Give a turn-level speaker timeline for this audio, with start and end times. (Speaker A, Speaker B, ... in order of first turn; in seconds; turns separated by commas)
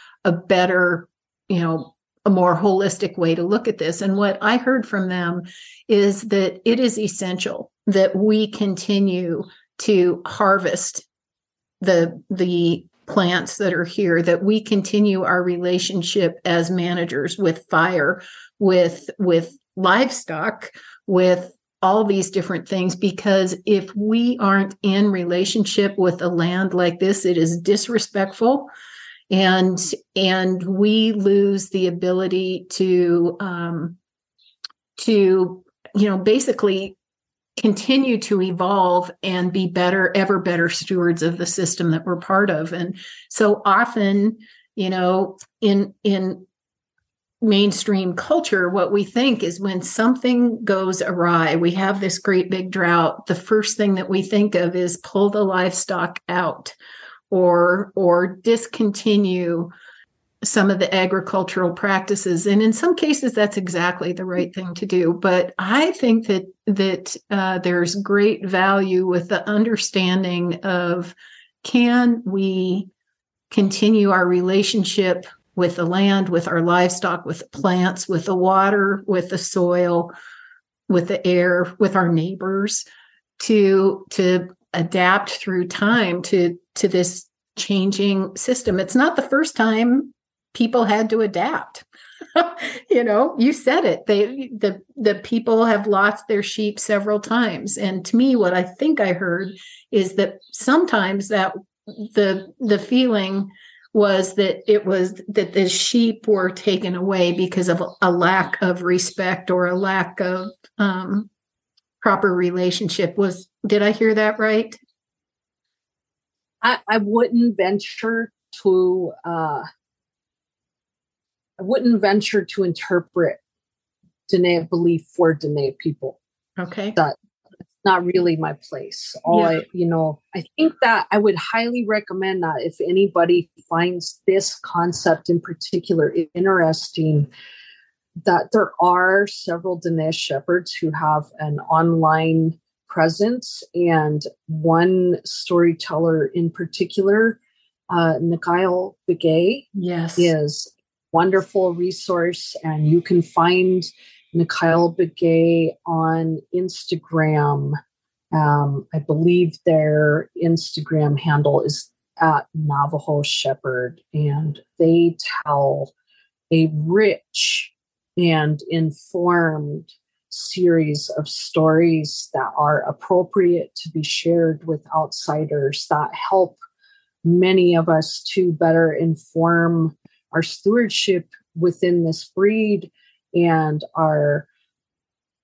Speaker A: 0.2-11.1, Speaker A: 11.8-28.7, Speaker A: 29.3-34.0, Speaker A: 35.0-37.0, Speaker A: 37.6-46.5, Speaker A: 47.4-56.7, Speaker A: 57.3-59.7, Speaker A: 60.4-72.9, Speaker A: 73.5-80.1, Speaker A: 80.9-82.8, Speaker A: 83.4-111.3, Speaker A: 112.0-114.8, Speaker B: 116.6-119.7, Speaker B: 121.6-123.4, Speaker B: 124.3-126.2, Speaker A: 126.6-127.0, Speaker B: 127.8-137.3, Speaker A: 129.3-129.6, Speaker B: 138.2-147.4, Speaker B: 147.9-157.8, Speaker A: 149.8-150.3, Speaker B: 158.3-165.9, Speaker B: 166.5-176.6, Speaker B: 177.2-184.4